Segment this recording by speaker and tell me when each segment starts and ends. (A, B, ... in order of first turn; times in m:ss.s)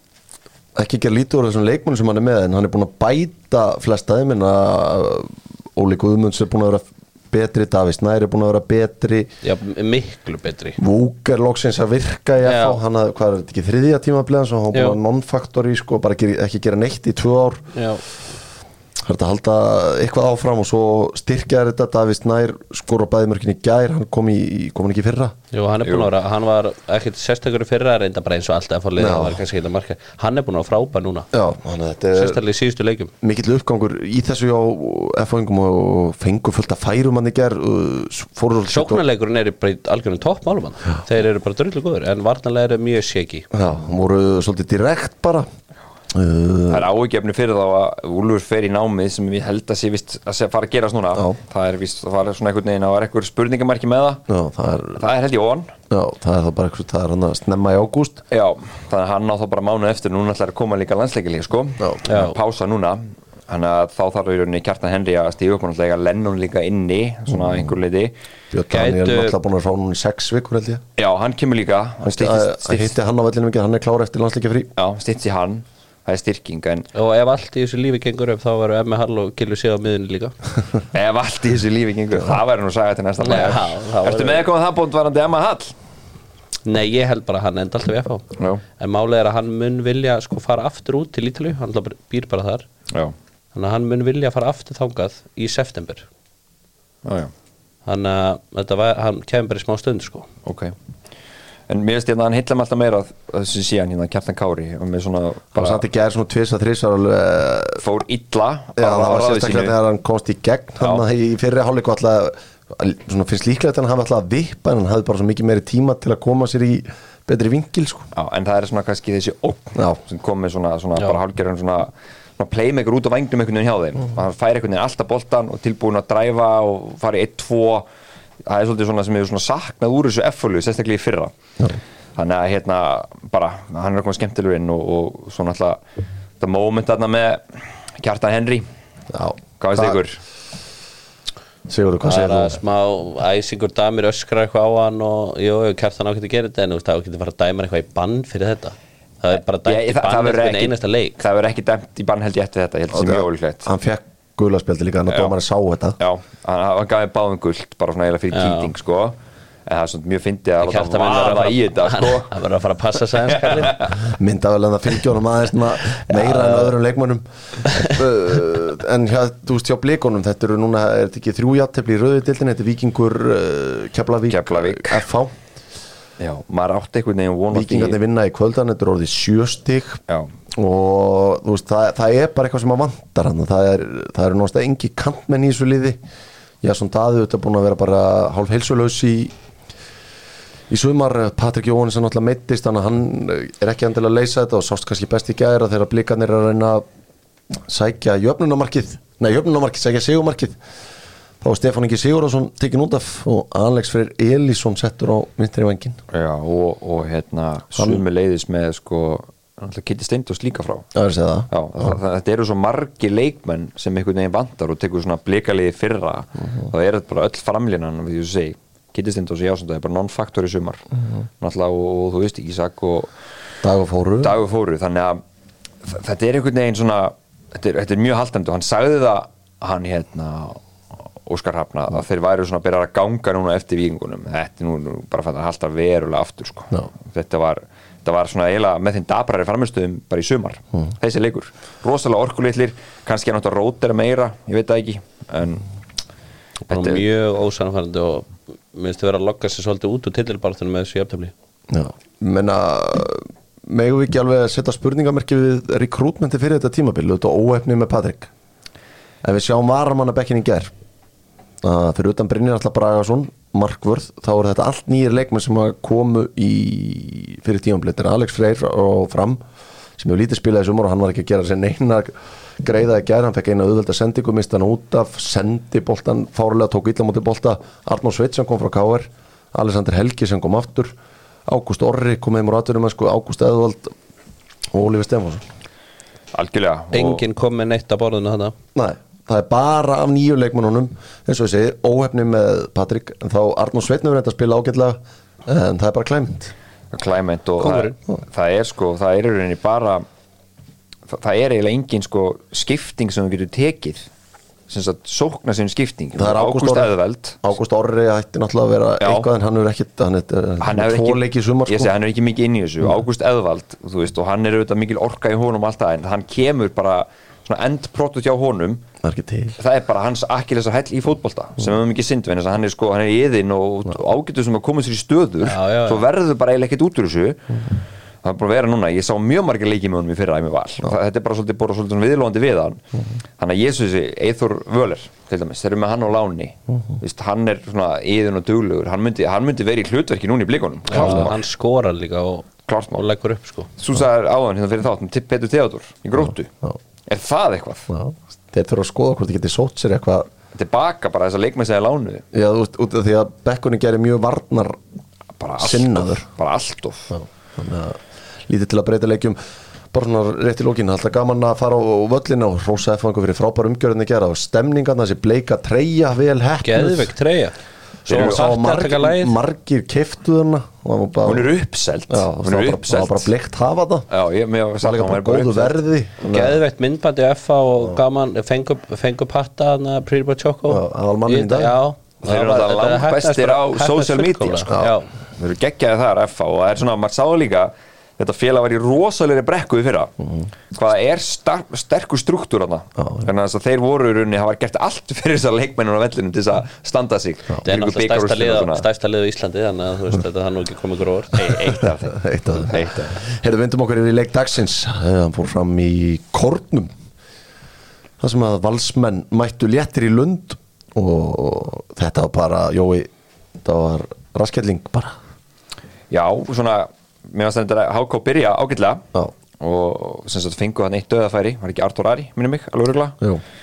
0:00.8-0:09.3 A
0:09.4-0:10.8 B
0:10.8-0:17.7 A
0:12.4-0:12.8 B
0:14.7-0:15.0 B
0:17.8-0:18.0 B
0:19.0-0:25.4 A
0:25.5-0:31.3 B
0:25.8-0:26.1 C
0:29.0-0:29.4 A
0:31.3-0:32.4 A
0:32.1-0:33.1 B
0:33.2-0:39.0 A
0:38.7-0:43.5 B
0:43.5-0:45.5 A
0:46.1-0:46.9 A
0:46.7-0:55.7 C
0:54.3-0:55.0 A
0:55.9-0:58.2 A
0:58.3-1:08.1 C
1:01.8-1:02.1 A
1:02.1-1:02.4 B
1:08.5-1:10.8 A
1:08.7-1:09.4 B
1:11.0-1:13.0 C
1:12.0-1:14.7 A
1:14.8-1:16.9 C
1:16.9-1:20.3 B
1:20.9-1:25.7 C
1:23.2-1:24.5 B
1:26.6-1:28.2 B
1:28.4-1:28.6 C
1:28.8-1:32.7 B
1:33.5-1:36.1 B
1:37.0-1:37.3 C
1:37.9-1:40.3 B
1:40.5-1:40.8 C
1:41.7-1:45.8 C
1:45.6-1:47.8 A
1:47.8-1:49.8 C
1:48.8-1:58.1 A
1:58.1-2:07.9 C
2:08.4-2:11.4 C
2:12.2-2:15.8 C
2:16.4-2:18.7 C
2:19.1-2:20.0 A
2:19.6-2:20.2 C
2:21.7-2:22.6 A
2:22.0-2:31.2 B
2:29.6-2:33.7 C
2:32.9-2:36.0 A
2:35.1-2:35.4 C
2:36.0-2:42.3 C
2:38.3-2:38.7 B
2:40.6-2:43.8 B
2:43.3-2:44.0 C
2:44.0-2:55.3 A
2:46.1-2:46.7 B
2:54.3-2:55.0 C
2:56.2-2:58.0 C
2:57.5-3:00.0 A
3:00.5-3:06.0 A
3:06.6-3:09.3 A
3:10.7-3:16.8 A
3:17.6-3:20.6 A
3:21.4-3:26.0 A
3:26.1-3:30.9 C
3:27.8-3:28.0 A
3:31.0-3:31.5 A
3:31.5-3:40.8 C
3:41.4-3:43.1 C
3:43.6-3:44.4 A
3:44.2-3:45.2 C
3:45.8-3:50.6 C
3:51.2-4:05.6 C
4:06.7-4:11.3 B
4:06.7-4:07.0 C
4:11.7-4:18.3 A
4:19.2-4:20.7 A
4:21.6-4:29.4 A
4:30.0-4:40.9 A
4:41.5-4:43.9 A
4:44.7-4:45.4 A
4:46.3-4:47.2 C
4:46.9-4:48.6 B
4:48.8-4:56.5 A
4:56.9-5:00.0 C
4:57.6-4:58.0 B
5:01.1-5:04.1 C
5:04.7-5:07.4 C
5:06.2-5:06.9 A
5:07.4-5:11.9 A
5:09.0-5:09.3 C
5:10.6-5:18.8 C
5:19.0-5:19.6 A
5:19.6-5:27.7 C
5:25.4-5:26.1 B
5:28.2-5:32.8 C
5:33.4-5:41.4 C
5:40.9-5:43.7 B
5:42.7-5:43.0 C
5:43.8-5:46.5 C
5:47.1-5:47.9 C
5:47.9-5:50.3 A
5:50.6-5:52.2 C
5:52.3-5:54.8 A
5:55.4-5:57.2 C
5:55.6-5:56.3 A
5:57.1-5:59.4 A
5:59.9-6:07.1 A
6:06.6-6:09.4 B
6:08.1-6:11.5 A
6:08.1-6:08.5 C
6:11.2-6:13.3 C
6:12.1-6:14.1 A
6:14.1-6:15.8 C
6:14.8-6:16.6 A
6:16.2-6:25.1 B
6:20.7-6:21.8 A
6:22.2-6:24.7 C
6:25.4-6:30.2 C
6:30.7-6:38.8 C
6:33.0-6:33.3 A
6:37.6-6:41.4 B
6:41.3-6:43.2 C
6:42.1-6:46.9 A
6:48.2-6:53.1 A
6:53.6-6:55.2 A
6:56.1-6:59.0 C
6:59.6-7:03.2 C